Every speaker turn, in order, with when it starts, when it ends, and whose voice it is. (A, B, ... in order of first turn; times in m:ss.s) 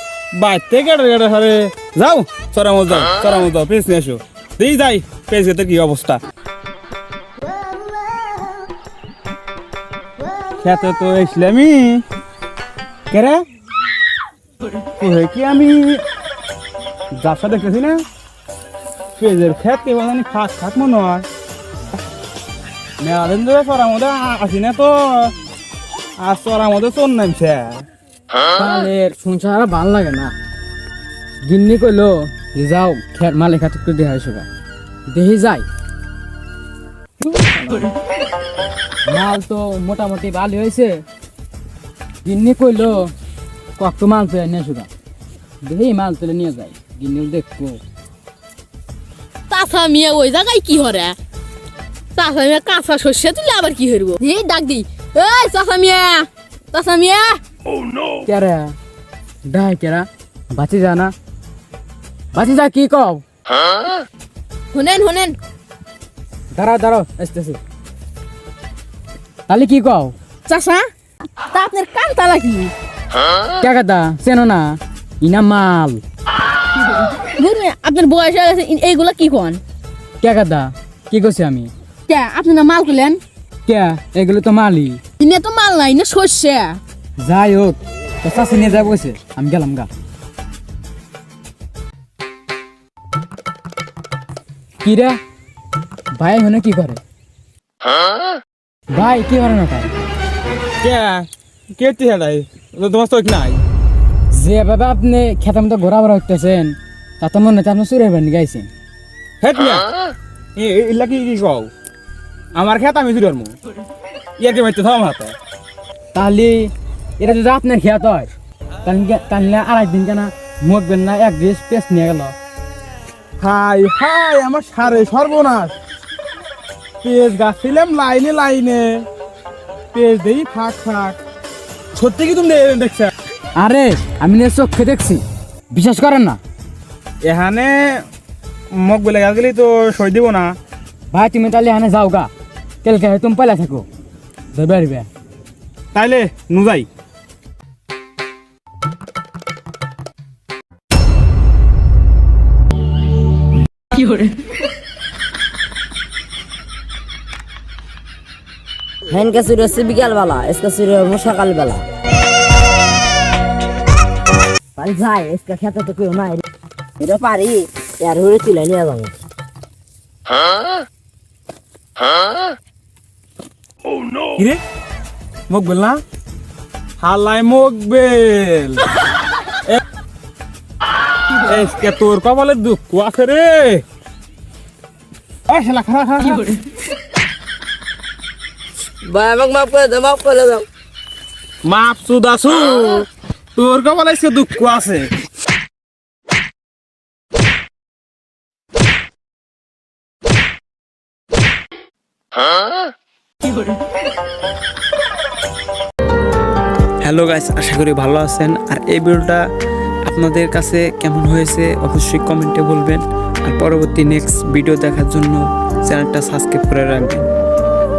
0:00.3-0:06.2 A
0:10.6-0:12.0 A
0:13.1-0:13.4 A
0:15.0-0:16.0 A
0:17.2-0:18.0 A
0:19.2-0:21.3 A
0:23.0-0:25.3 A
0:26.2-0:27.8 A
0:28.6-0:30.3 B
0:31.4-0:34.5 B
0:35.1-0:35.7 B
0:37.2-0:37.9 B
0:39.1-0:41.0 B
0:42.2-0:43.1 B
0:43.8-0:44.9 B
0:45.6-0:47.8 B
0:49.5-0:51.2 C
0:52.1-0:57.4 C
0:58.2-0:58.8 B
0:59.4-1:01.1 B
1:02.3-1:03.2 B
1:04.7-1:05.4 C
1:06.5-1:07.6 B
1:09.5-1:10.1 B
1:10.4-1:10.9 C
1:11.5-1:12.7 C
1:13.6-1:16.0 B
1:16.9-1:19.6 C
1:20.2-1:21.7 B
1:22.1-1:23.2 C
1:23.6-1:25.0 B
1:25.2-1:26.8 C
1:27.2-1:29.9 B
1:34.8-1:35.2 B
1:36.1-1:37.0 B
1:38.9-1:39.9 B
1:40.8-1:43.6 A
1:44.3-1:48.7 B
1:49.4-1:49.9 A
1:50.6-1:51.7 A
1:52.6-1:53.6 A
1:54.4-1:55.4 A
1:56.1-1:58.3 B
1:58.8-2:02.3 B
2:03.4-2:05.8 A
2:07.0-2:09.1 A
2:09.9-2:11.2 A
2:11.9-2:13.1 A
2:13.6-2:16.4 B
2:17.2-2:17.8 A
2:18.7-2:20.5 A
2:21.1-2:22.3 B
2:22.8-2:23.8 B
2:24.5-2:25.1 B
2:25.9-2:26.9 A
2:39.1-2:41.8 D
2:44.8-2:46.4 D
2:47.0-2:49.1 D
2:54.4-2:54.6 A
2:55.5-2:56.0 A
2:57.0-2:58.8 A
3:01.4-3:03.8 A
3:05.5-3:06.5 A
3:09.0-3:10.7 D
3:11.6-3:15.1 A
3:27.0-3:29.4 E
3:30.0-3:37.3 E